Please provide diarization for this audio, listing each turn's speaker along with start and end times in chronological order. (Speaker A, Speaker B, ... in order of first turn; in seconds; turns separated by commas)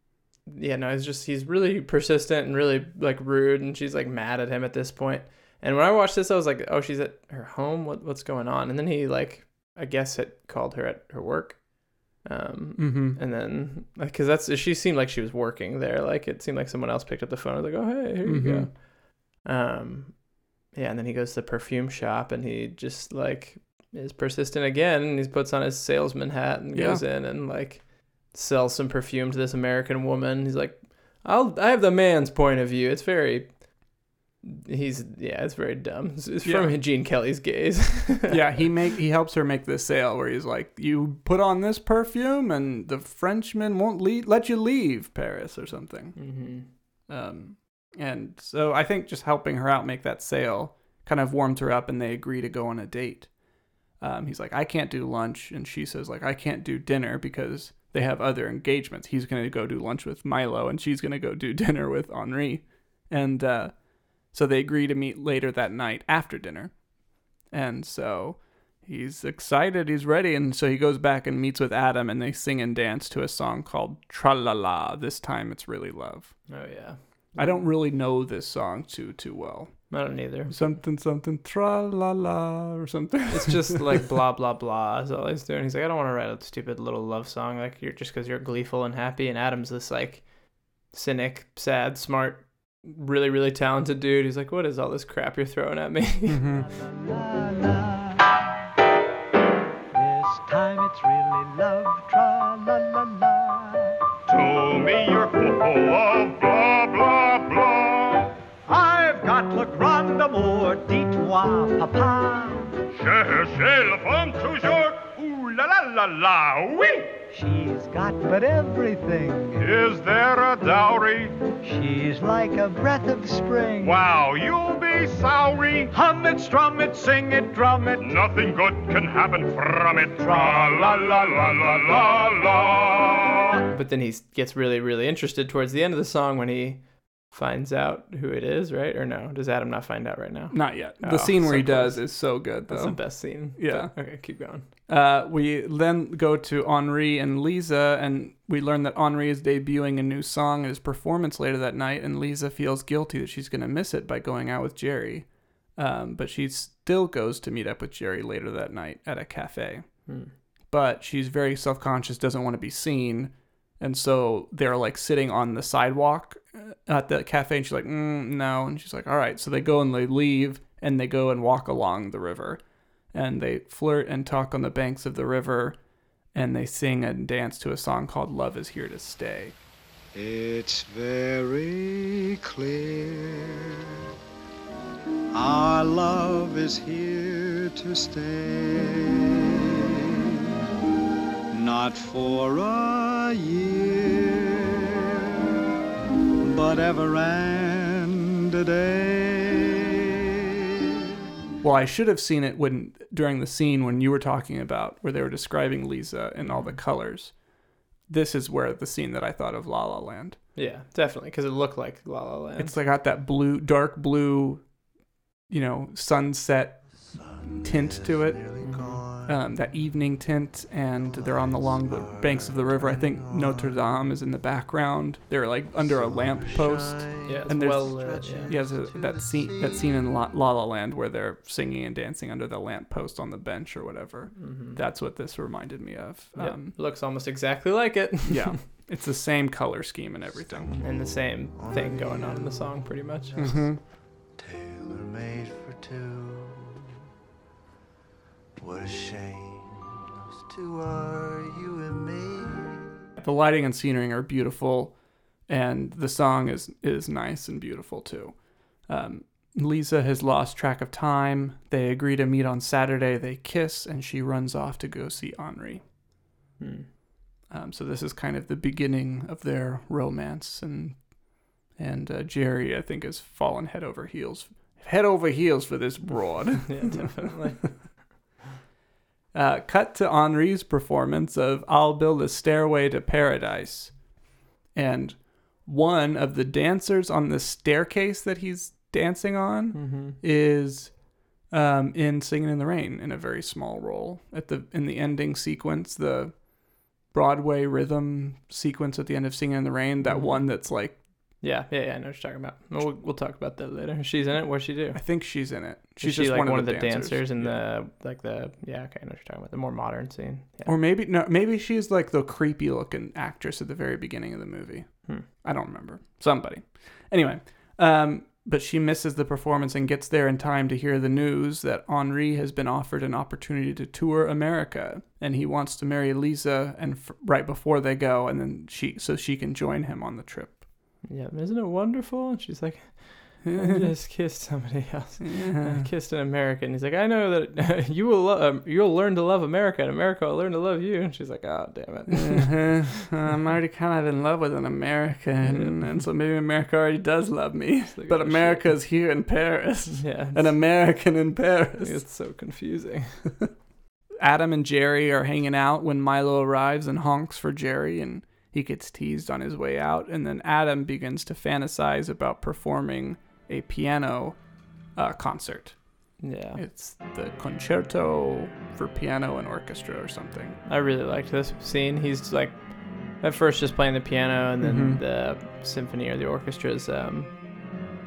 Speaker A: 0.5-38.7, Speaker B: 12.8-13.2, Speaker B: 18.2-18.7, Speaker B: 26.7-27.0, Speaker B: 36.4-36.8, Speaker B: 38.3-53.4, Speaker A: 46.2-46.7, Speaker B: 54.0-66.9, Speaker B: 67.4-76.8, Speaker A: 76.5-77.7, Speaker B: 77.4-83.8, Speaker A: 79.9-80.6, Speaker A: 83.3-96.5, Speaker B: 96.3-96.7, Speaker C: 96.6-98.3, Speaker C: 99.9-104.0, Speaker D: 104.3-108.3, Speaker C: 108.7-112.7, Speaker D: 112.9-117.1, Speaker C: 117.3-119.7, Speaker D: 119.6-121.4, Speaker C: 121.6-124.0, Speaker D: 123.8-125.9, Speaker C: 125.9-128.2, Speaker D: 128.0-133.4, Speaker C: 130.2-132.1, Speaker A: 133.7-144.7, Speaker B: 140.5-175.8, Speaker A: 160.1-160.3, Speaker B: 176.3-179.6, Speaker E: 180.2-183.3, Speaker E: 185.3-189.0, Speaker E: 191.5-194.2, Speaker E: 196.4-199.5, Speaker B: 201.6-207.4, Speaker A: 206.4-206.8, Speaker B: 208.1-210.4, Speaker A: 210.6-212.8, Speaker B: 212.6-214.7, Speaker B: 215.5-218.6, Speaker E: 216.9-219.4, Speaker A: 218.6-219.0, Speaker B: 219.2-236.8, Speaker E: 220.9-224.1, Speaker E: 225.7-230.0, Speaker A: 227.2-228.6, Speaker A: 234.4-234.8, Speaker A: 236.4-238.6, Speaker B: 238.3-240.7, Speaker E: 240.4-246.6, Speaker A: 240.8-243.7, Speaker B: 243.4-243.8, Speaker E: 248.6-249.8, Speaker E: 250.5-252.8, Speaker B: 253.2-265.9, Speaker A: 266.6-266.9, Speaker B: 267.5-277.3, Speaker A: 276.7-278.1, Speaker B: 279.3-284.1, Speaker B: 284.7-301.0, Speaker A: 289.7-290.2, Speaker A: 300.0-310.8, Speaker B: 304.9-307.6, Speaker B: 310.7-330.6, Speaker A: 331.1-343.0, Speaker B: 333.4-333.9, Speaker B: 335.2-335.9, Speaker B: 342.1-352.0, Speaker A: 345.4-346.1, Speaker A: 347.9-348.7, Speaker A: 349.9-350.9, Speaker A: 351.8-353.4, Speaker B: 354.2-370.6, Speaker A: 366.2-366.6, Speaker A: 370.7-377.7, Speaker B: 374.6-375.0